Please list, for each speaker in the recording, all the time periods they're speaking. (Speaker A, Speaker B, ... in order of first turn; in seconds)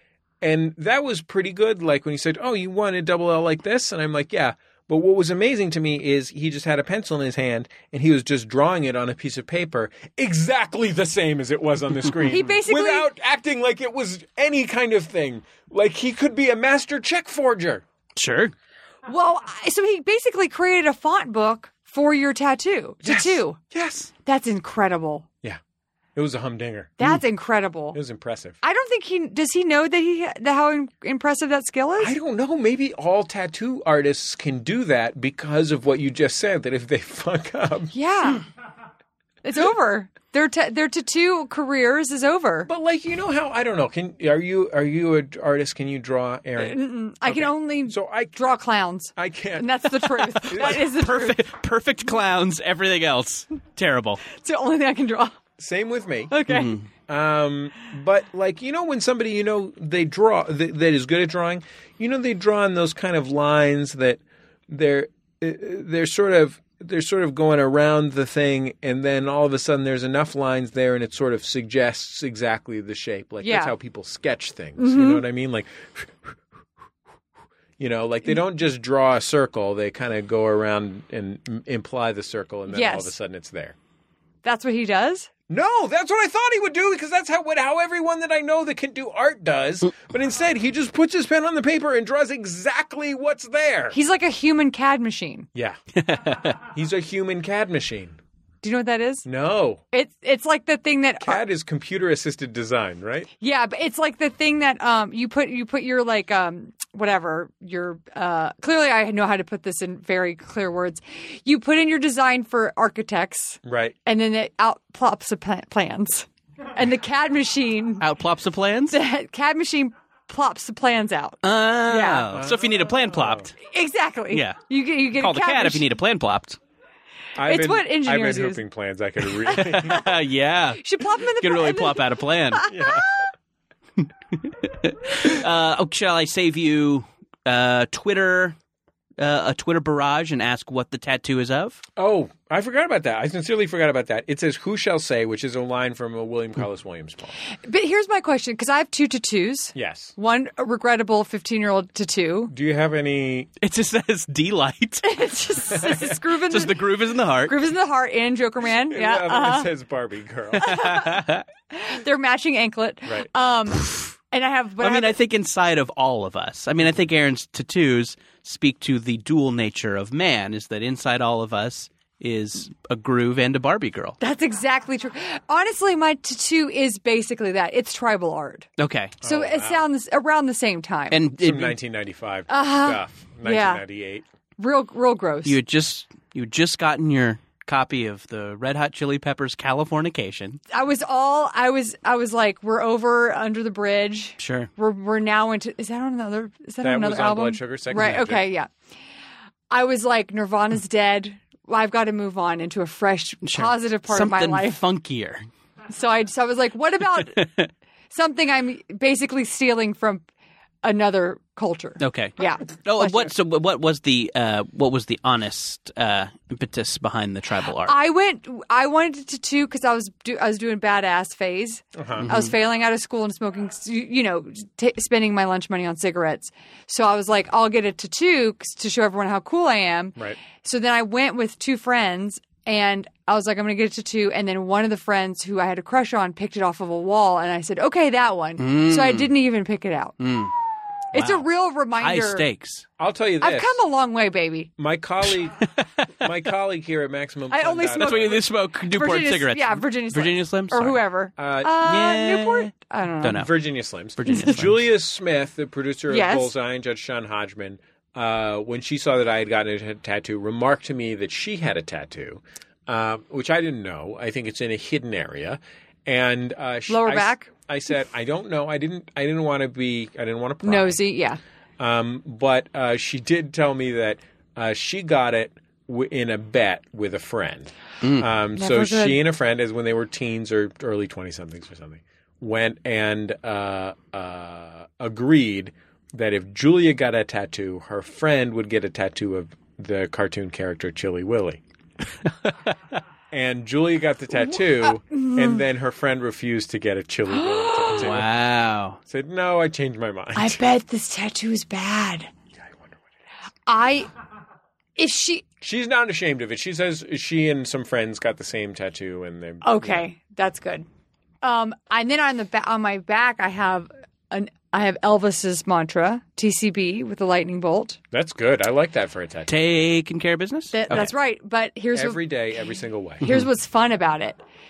Speaker A: 0.4-17.8, 23.0-24.1, 26.1-27.0, 27.9-28.6, 32.0-37.9, 42.7-48.4, 49.1-50.9, 55.6-56.3, 57.1-76.3, 77.8-83.8, 85.5-94.0, 96.6-98.2, 99.2-99.8, 101.2-103.3, 113.6-114.0, 122.3-123.5, 127.4-130.1, 132.7-133.2, 142.0-147.3, 149.7-150.1, 152.5-153.5, 155.7-156.1, 158.9-160.8, 179.2-179.8, 181.4-184.2, 196.8-198.4, 221.9-222.3, 243.0-243.8, 244.8-245.7, 246.2-248.4, 251.4-251.8, 253.3-271.0, 271.8-291.6, 293.3-298.3, 299.1-300.6, 302.6-303.0, 305.6-310.0, 318.1-319.6, 321.9-323.2
Speaker B: 12.3-13.1, 19.1-23.6, 24.2-25.2, 27.0-28.0, 28.6-32.1, 37.9-38.4, 39.4-42.7, 46.6-51.4, 54.3-55.4, 56.3-56.7, 73.4-73.7, 74.8-75.2, 82.7-83.1, 84.4-85.3, 93.9-95.5, 98.6-99.2, 99.9-101.4, 103.4-118.0, 118.9-122.3, 123.6-125.8, 127.4-128.6, 129.6-130.0, 130.8-133.3, 147.6-152.5, 155.0-156.7, 157.4-159.7, 160.6-161.2, 161.7-165.2, 174.2-178.7, 179.2-181.2, 182.5-183.8, 184.6-185.5, 190.7-198.7, 199.7-204.8, 205.9-207.4, 208.1-210.2, 210.8-213.3, 217.8-240.2, 241.1-242.4, 243.4-244.7, 247.5-253.4, 254.3-254.6, 256.1-256.5, 266.9-267.5, 270.6-271.4, 278.6-279.2, 294.4-295.6, 297.3-298.1, 300.4-302.3, 303.7-304.1, 305.0-305.4, 309.6-310.9, 311.4-318.0, 320.7-322.2, 323.2-324.4
Speaker C: 18.1-18.5, 50.4-54.2, 56.5-56.8, 96.0-96.6, 118.0-119.0, 121.4-123.5, 124.3-124.6, 125.1-126.6, 129.5-132.7, 134.4-138.6, 139.2-141.8, 153.6-155.2, 156.5-157.6, 160.7-161.4, 164.8-174.2, 178.8-179.2, 181.1-181.8, 185.4-190.6, 194.4-194.7, 203.4-205.5, 207.2-207.7, 212.0-218.0, 222.2-222.5, 238.6-239.3, 240.2-240.5, 241.1-242.8, 245.8-246.3, 248.0-251.0, 251.8-253.5, 254.2-254.8, 278.0-278.3, 297.9-299.0, 319.5-321.1